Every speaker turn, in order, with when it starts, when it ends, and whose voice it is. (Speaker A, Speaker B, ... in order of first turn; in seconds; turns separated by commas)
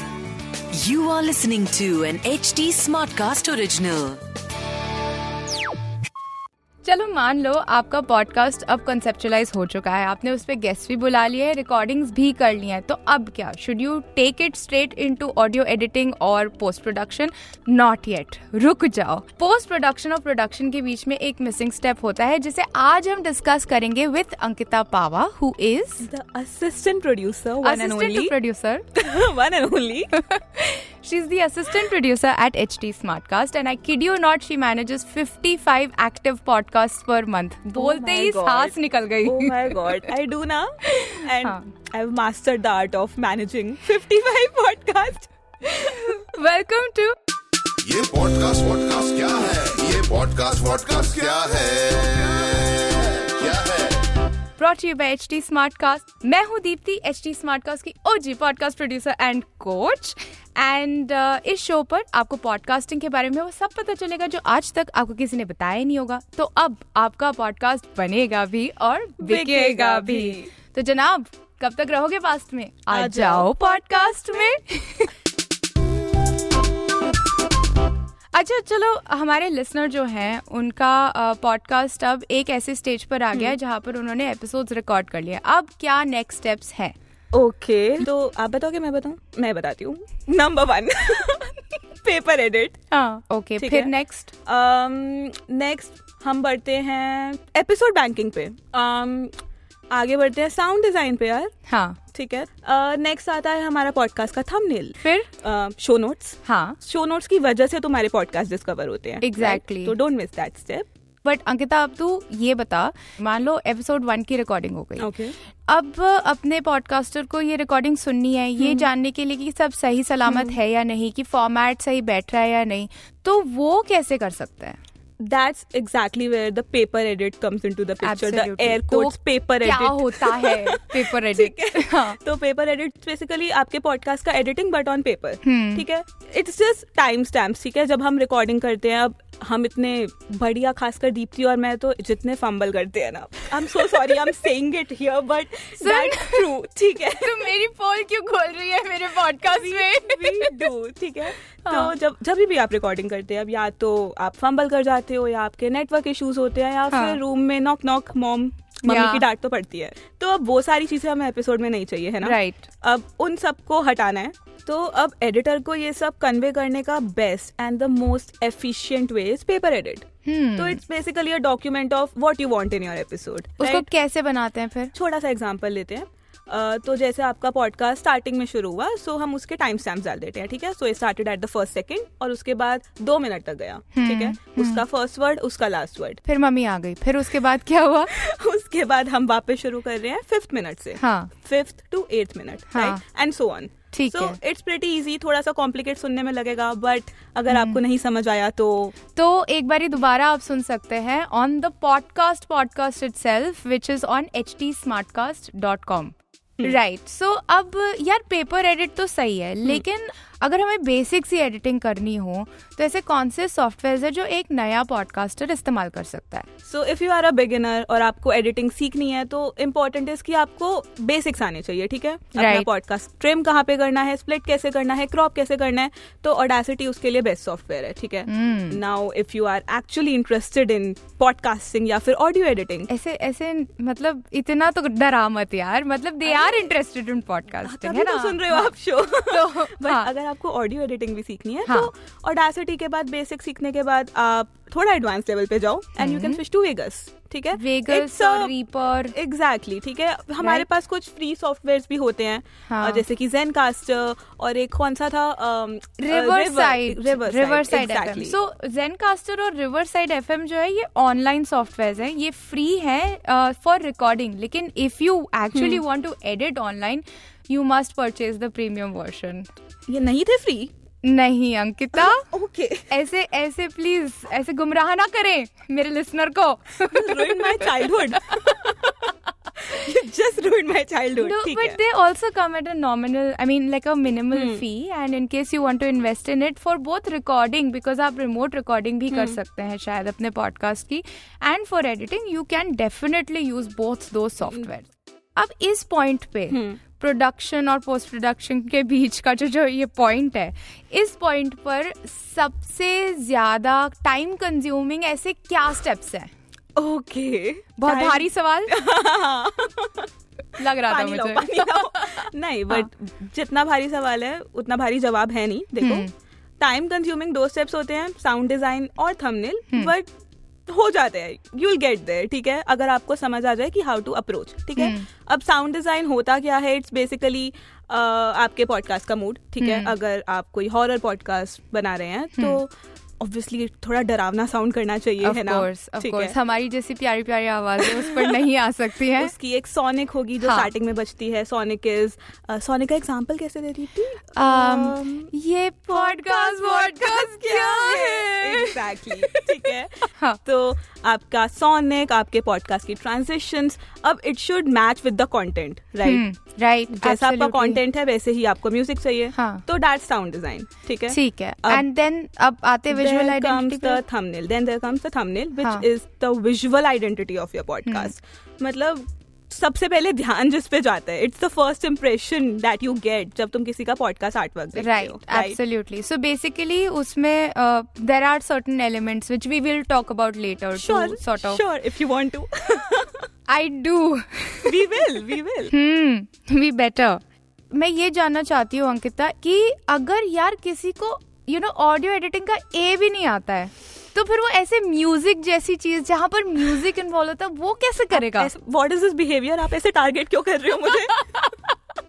Speaker A: 0.8-4.2, Speaker B: 6.8-26.1, Speaker C: 26.0-28.3, Speaker B: 27.6-28.8, Speaker C: 28.9-30.1, Speaker B: 30.1-40.1, Speaker C: 37.8-45.3, Speaker B: 40.8-41.7, Speaker B: 45.6-47.1, Speaker D: 47.8-54.0, Speaker B: 54.6-75.1, Speaker C: 69.2-70.5, Speaker C: 72.9-74.6, Speaker B: 78.3-86.9, Speaker C: 87.3-92.8, Speaker B: 92.9-94.3, Speaker C: 93.6-93.9, Speaker C: 94.5-99.3, Speaker C: 99.9-101.5, Speaker B: 101.7-102.0, Speaker C: 102.1-110.9, Speaker B: 105.0-105.3, Speaker B: 106.4-106.8, Speaker B: 109.2-110.0, Speaker B: 111.2-115.1, Speaker C: 115.0-115.3, Speaker B: 115.7-124.8, Speaker C: 118.6-118.9, Speaker C: 120.3-120.5, Speaker C: 125.2-147.5, Speaker B: 128.0-132.2, Speaker B: 135.4-135.8, Speaker B: 145.8-146.5, Speaker B: 147.2-150.7, Speaker C: 149.4-173.9, Speaker B: 151.7-151.9, Speaker B: 156.9-157.2, Speaker B: 158.8-159.2, Speaker B: 162.2-162.7, Speaker B: 170.2-170.8, Speaker B: 173.6-174.9, Speaker C: 174.9-186.2, Speaker B: 183.9-184.8, Speaker B: 186.2-188.1, Speaker C: 188.1-198.9, Speaker B: 191.0-191.3, Speaker B: 192.7-193.0, Speaker B: 193.9-194.4, Speaker B: 197.5-197.8, Speaker B: 199.1-216.5, Speaker C: 216.7-232.9, Speaker B: 222.3-222.7, Speaker B: 228.3-228.8, Speaker B: 232.9-240.1, Speaker C: 236.2-236.7, Speaker C: 237.6-248.5, Speaker B: 246.0-246.4, Speaker B: 247.5-249.1, Speaker C: 249.1-258.4, Speaker B: 250.4-250.7, Speaker B: 252.7-253.0, Speaker B: 256.0-269.5, Speaker C: 265.5-265.8, Speaker C: 269.9-270.7, Speaker B: 271.0-272.2, Speaker C: 271.9-272.9, Speaker B: 272.9-277.7, Speaker C: 276.8-278.9, Speaker C: 279.7-281.8, Speaker B: 281.2-306.3, Speaker C: 284.3-284.6, Speaker C: 289.1-289.4, Speaker C: 296.5-296.8, Speaker C: 306.8-310.1, Speaker B: 307.8-308.8, Speaker B: 310.6-312.8, Speaker C: 310.8-316.1, Speaker B: 315.8-316.1, Speaker C: 316.6-320.1, Speaker C: 320.7-336.3, Speaker B: 324.8-325.0, Speaker B: 329.6-329.9, Speaker B: 335.2-339.3, Speaker C: 337.8-338.4, Speaker C: 339.2-345.3, Speaker B: 340.4-340.7, Speaker B: 344.4-349.5, Speaker C: 345.9-356.2, Speaker B: 350.1-350.4, Speaker B: 356.0-357.8, Speaker C: 356.9-361.8, Speaker B: 359.3-359.6, Speaker B: 361.1-364.0, Speaker C: 362.9-375.6, Speaker B: 367.9-368.1, Speaker B: 374.8-381.6, Speaker C: 380.8-383.2, Speaker B: 383.5-384.9, Speaker C: 384.6-385.7, Speaker B: 385.7-387.2, Speaker B: 387.7-398.5, Speaker C: 398.1-401.2, Speaker B: 401.3-401.6